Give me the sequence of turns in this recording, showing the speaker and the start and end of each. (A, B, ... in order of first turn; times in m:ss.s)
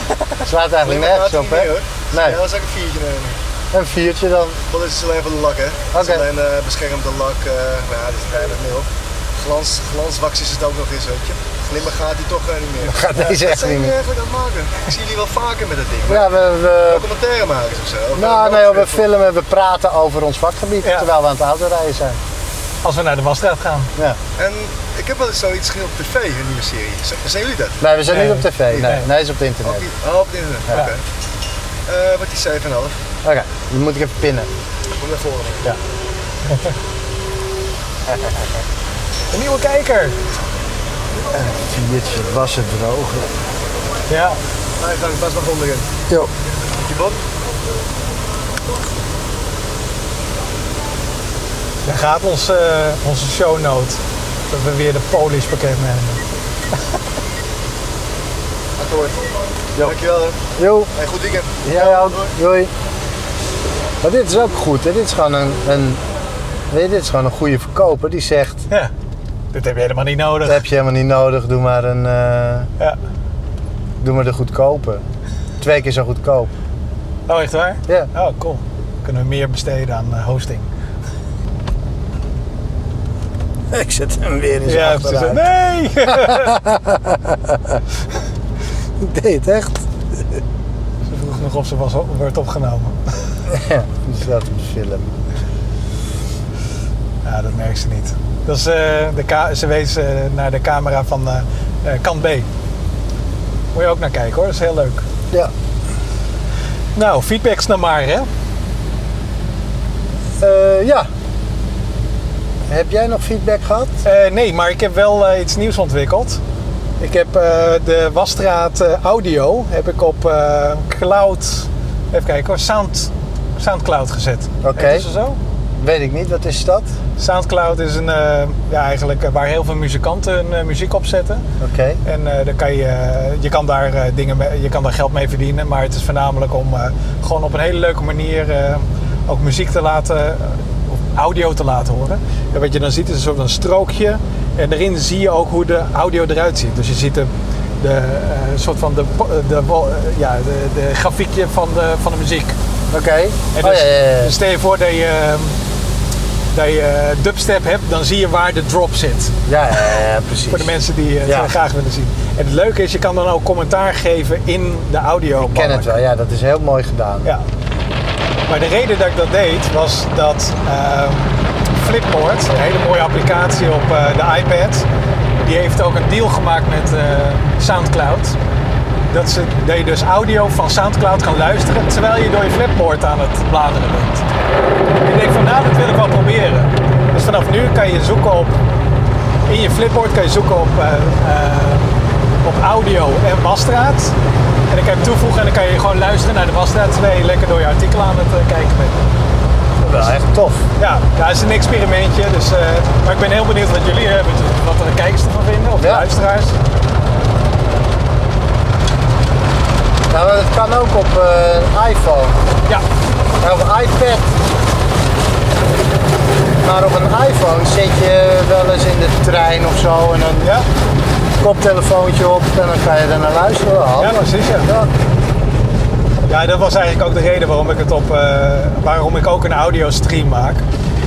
0:00.4-0:02.4 A
0:00.8-0:03.4 B
0:03.7-0:04.6 A
0:04.7-0:16.3 B
0:05.9-0:06.2 A
0:12.8-0:13.9 A
0:16.1-0:17.0 A
0:16.9-0:19.0 B
0:18.1-0:22.2 A
0:20.8-0:21.1 C
0:22.8-0:23.9 C
0:24.4-0:27.8 B
0:27.8-0:29.8 A
0:28.1-0:29.1 C
0:29.6-0:31.0 B
0:31.9-0:33.0 B
0:33.2-0:34.5 A
0:35.0-0:35.6 B
0:39.3-0:40.2 C
0:41.3-0:43.3 A
0:44.1-0:44.4 C
0:44.8-0:45.9 B
0:46.8-0:47.2 B
0:51.8-0:56.2 C
0:58.8-1:00.4 B
1:00.6-1:00.9 A
1:01.0-1:02.3 B
1:01.6-1:02.7 A
1:04.0-1:06.0 A
1:06.7-1:08.7 A
1:09.5-1:10.6 C
1:10.4-1:12.7 A
1:14.0-1:15.0 A
1:15.6-1:16.5 A
1:17.3-1:20.7 C
1:23.7-1:25.4 A
1:24.6-1:26.6 C
1:26.3-1:27.8 A
1:29.0-1:30.4 A
1:31.0-1:33.3 C
1:33.5-1:35.1 A
1:37.2-1:42.5 C
1:43.7-1:45.1 C
1:47.0-1:48.3 C
1:50.4-1:51.1 A
1:52.7-1:53.9 A
1:54.0-1:56.4 C
1:57.0-2:05.4 C
2:04.6-2:05.1 A
2:05.8-2:06.9 A
2:07.2-2:11.4 C
2:11.6-2:12.0 A
2:12.0-2:32.6 C
2:32.9-2:34.3 A
2:33.5-2:35.6 C
2:36.5-2:39.3 C
2:39.5-2:40.7 A
2:40.5-2:46.0 C
2:41.2-2:41.5 A
2:45.4-2:47.3 A
2:48.5-2:54.9 C
2:55.4-2:58.4 C
2:59.1-3:04.2 C
3:05.0-3:08.6 C
3:09.5-3:14.1 C
3:14.7-3:19.0 C
3:19.8-3:20.6 A
3:20.8-3:26.6 C
3:25.8-3:26.1 A
3:30.1-3:32.4 A
3:33.4-3:34.2 A
3:36.6-3:40.5 A
3:41.4-3:44.9 A
3:44.0-3:44.7 C
3:46.3-3:50.6 C